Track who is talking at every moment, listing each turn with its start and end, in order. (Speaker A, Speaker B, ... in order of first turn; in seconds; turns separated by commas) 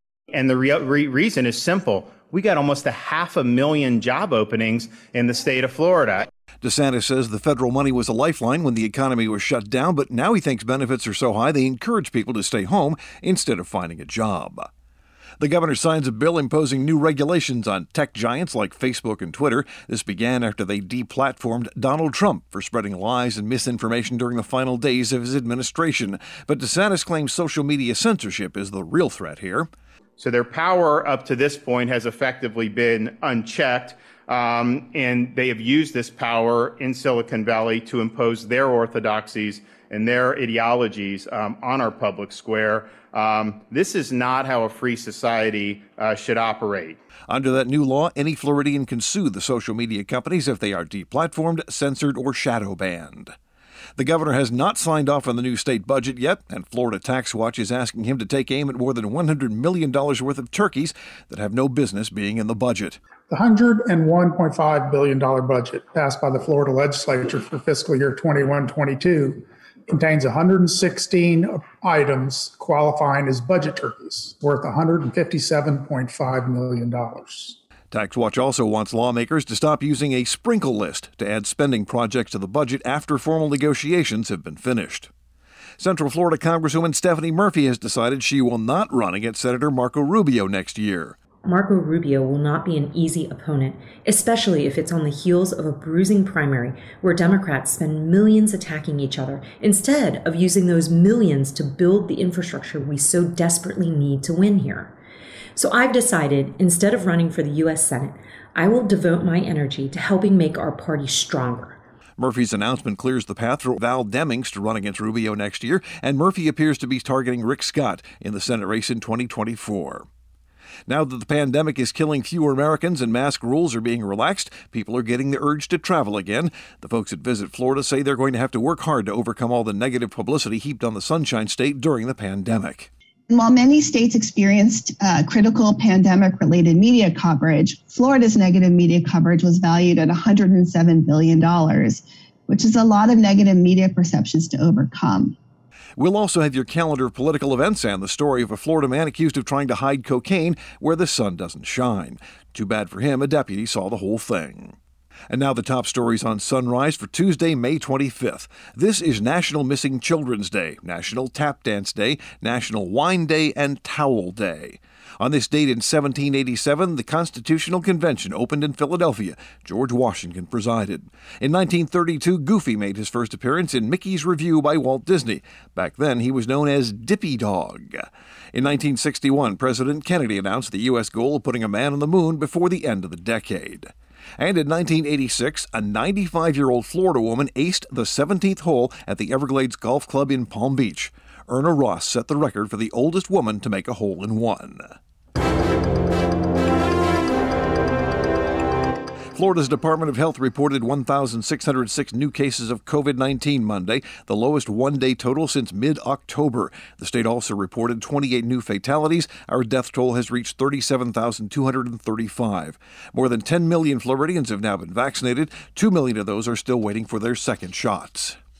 Speaker A: 0.3-6.3, Speaker B: 6.6-14.7, Speaker B: 15.4-29.7, Speaker A: 30.2-47.0, Speaker B: 47.3-53.3, Speaker B: 54.0-63.0, Speaker C: 63.3-77.6, Speaker B: 77.9-85.1, Speaker B: 85.8-91.2, Speaker D: 91.4-104.9, Speaker D: 105.5-111.8, Speaker B: 112.2-120.1, Speaker B: 120.9-132.9, Speaker E: 133.3-145.3, Speaker B: 146.0-154.8, Speaker B: 155.3-194.9, Speaker B: 199.3-218.4